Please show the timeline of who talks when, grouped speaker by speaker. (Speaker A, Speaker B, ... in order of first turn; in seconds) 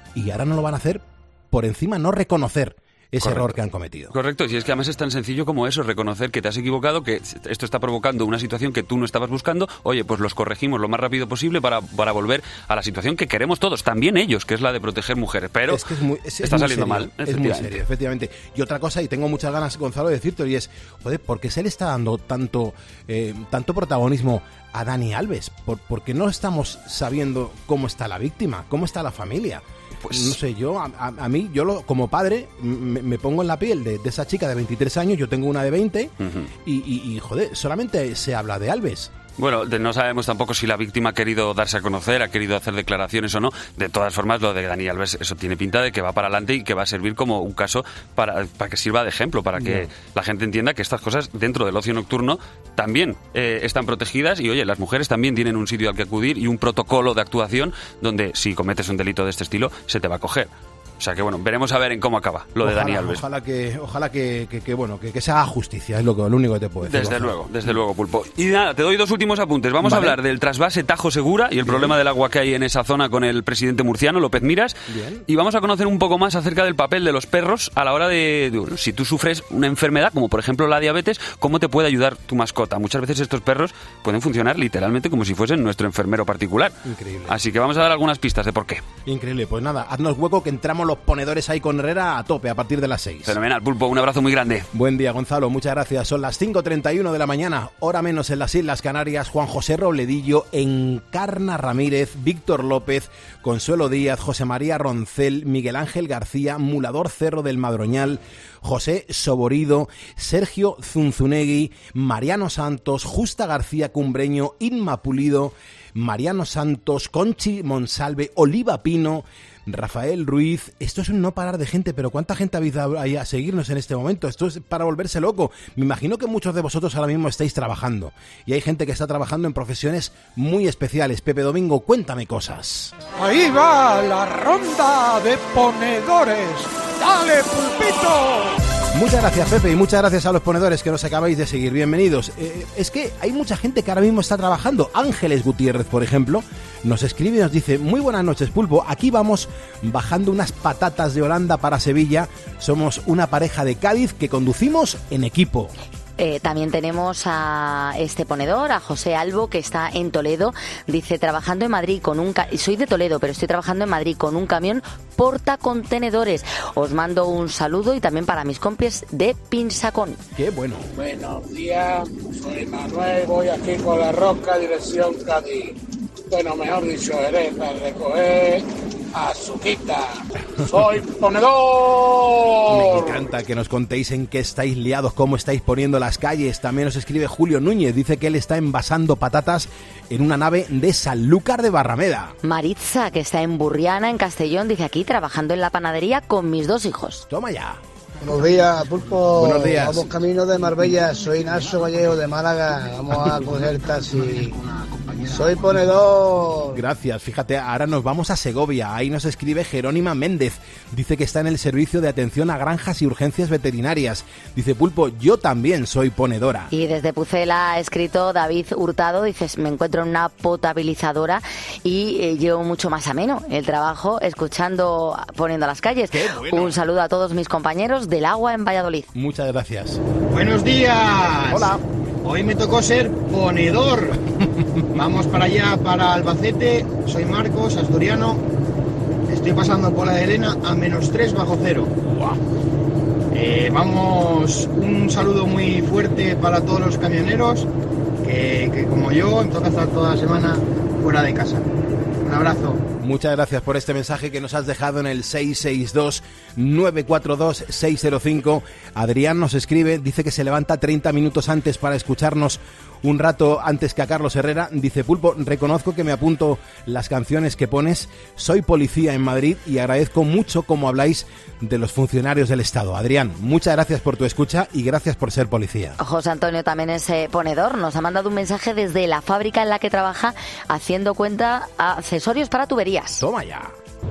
Speaker A: 0.1-4.1, 15.7-36.1, 36.6-39.1, 49.5-49.9, 62.6-67.7, 69.8-70.2, 71.6-72.0, 74.9-75.2, 86.8-87.3, 89.0-93.3, 94.7-132.9, 138.9-155.7, 170.3-170.9, 182.7-192.3, 197.3-197.8, 199.4-200.1, 206.7-216.7, 226.1-226.8, 229.1-230.0, 231.5-231.8, 253.0-276.0, 283.2-283.8
Speaker B: 3.2-3.5, 4.1-15.8, 16.4-17.8, 30.0-30.4, 36.2-36.5, 39.4-63.2, 66.8-86.8, 87.3-88.8, 93.2-94.7
Speaker C: 133.2-138.6
Speaker D: 156.2-170.2, 192.4-197.2, 216.7-229.1, 276.0-283.2
Speaker E: 171.0-175.7, 176.3-180.1, 180.8-183.2
Speaker F: 198.2-204.6, 205.3-206.7
Speaker G: 230.3-231.7, 232.2-234.2, 234.9-238.4, 239.3-242.3, 243.3-247.7, 248.2-251.7, 252.2-252.8